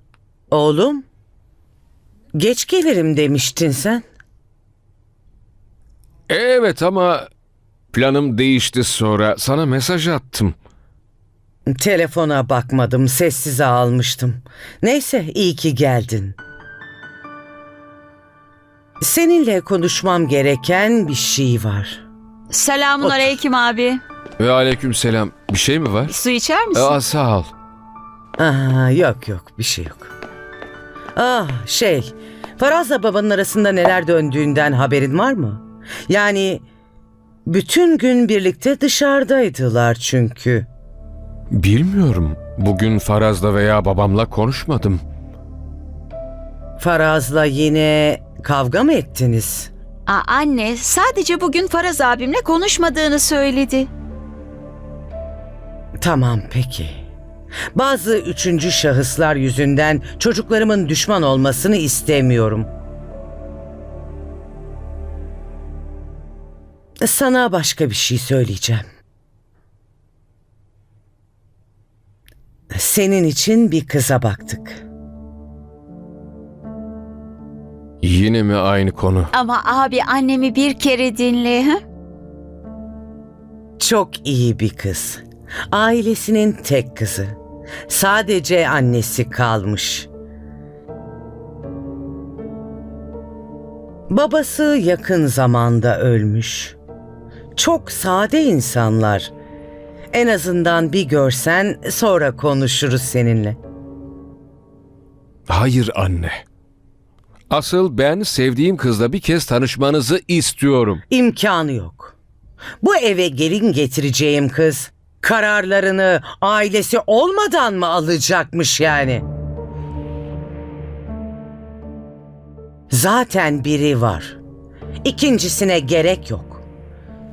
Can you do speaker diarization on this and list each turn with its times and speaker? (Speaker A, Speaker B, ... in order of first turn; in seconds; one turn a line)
Speaker A: 0.5-1.1
Speaker A: 2.4-4.1
Speaker B: 6.3-7.3
Speaker B: 7.9-10.6
Speaker A: 11.7-16.4
Speaker A: 19.0-22.0
Speaker C: 22.5-24.0
Speaker B: 24.4-26.2
Speaker C: 26.1-26.9
Speaker B: 26.7-27.5
Speaker A: 28.4-30.1
Speaker A: 31.2-36.6
Speaker A: 37.5-40.7
Speaker B: 41.5-45.0
Speaker A: 46.8-49.7
Speaker C: 50.1-53.9
Speaker A: 56.0-57.0
Speaker A: 57.8-62.7
Speaker A: 67.0-68.9
Speaker A: 72.7-74.8
Speaker B: 78.0-79.3
Speaker C: 79.3-81.8
Speaker A: 83.8-87.4
Speaker A: 87.9-90.1
Speaker A: 94.1-96.8
Speaker A: 97.6-99.3
Speaker A: 100.1-103.6
Speaker B: 105.5-106.4
Speaker B: 107.5-111.0
Speaker A: 111.1-112.2
Speaker A: 112.8-119.3
Speaker A: 122.9-124.4
Speaker A: 125.0-126.6